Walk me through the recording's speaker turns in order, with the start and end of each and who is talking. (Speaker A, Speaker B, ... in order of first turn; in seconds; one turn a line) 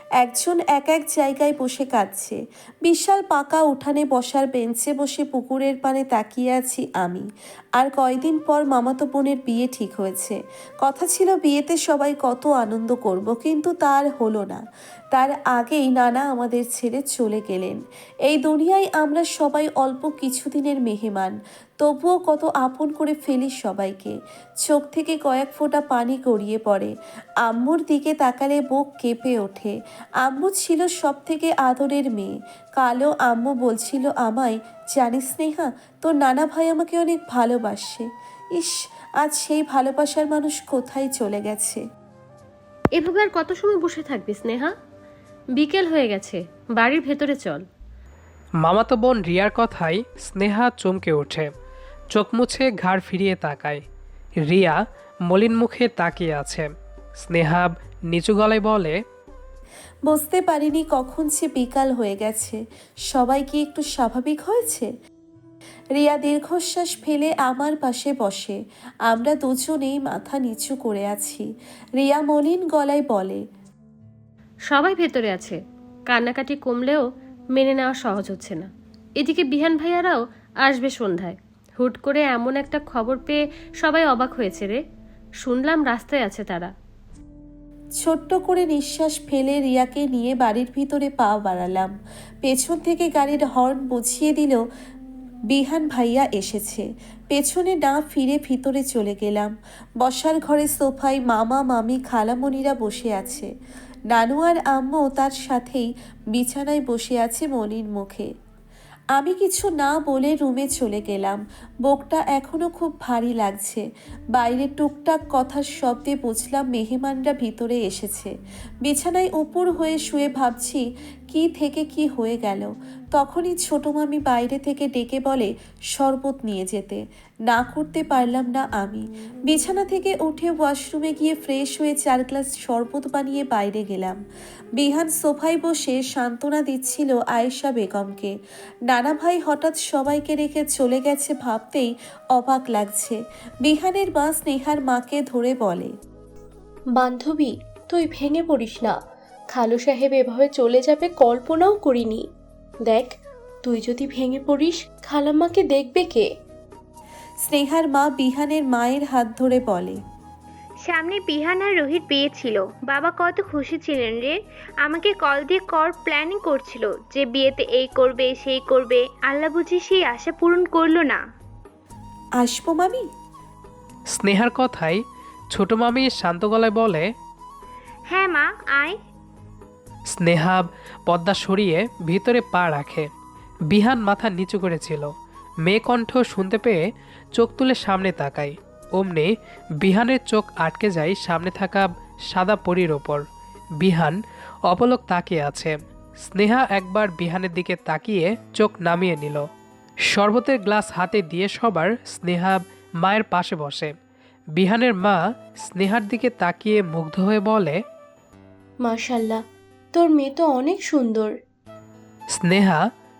Speaker A: 0.2-7.2
Speaker A: 7.8-26.9
Speaker A: 27.4-41.8
Speaker B: 43.0-44.7
Speaker B: 45.5-47.6
Speaker C: 48.6-51.5
Speaker C: 52.1-53.8
Speaker C: 54.5-56.7
Speaker C: 57.2-58.9
Speaker A: 60.1-62.6
Speaker A: 63.1-64.9
Speaker A: 66.0-68.6
Speaker A: 69.1-71.5
Speaker A: 72.0-73.4
Speaker B: 74.7-78.7
Speaker B: 79.2-84.8
Speaker B: 85.4-86.7
Speaker A: 88.0-91.9
Speaker A: 92.4-94.6
Speaker A: 95.5-103.5
Speaker A: 104.1-108.3
Speaker A: 109.2-134.2
Speaker A: 134.8-138.3
Speaker A: 138.9-145.9
Speaker D: 146.9-149.0
Speaker D: 149.5-152.2
Speaker D: 152.8-156.2
Speaker A: 157.5-160.0
Speaker E: 160.8-171.2
Speaker A: 172.4-173.1
Speaker C: 174.1-175.0
Speaker C: 175.5-177.1
Speaker E: 178.1-179.0
Speaker C: 180.1-183.1
Speaker C: 183.7-185.1
Speaker C: 185.6-186.8
Speaker C: 187.3-193.2
Speaker C: 193.8-199.4
Speaker C: 200.1-203.9
Speaker C: 204.6-207.8
Speaker D: 208.8-209.4
Speaker D: 209.9-211.3
Speaker C: 212.3-212.8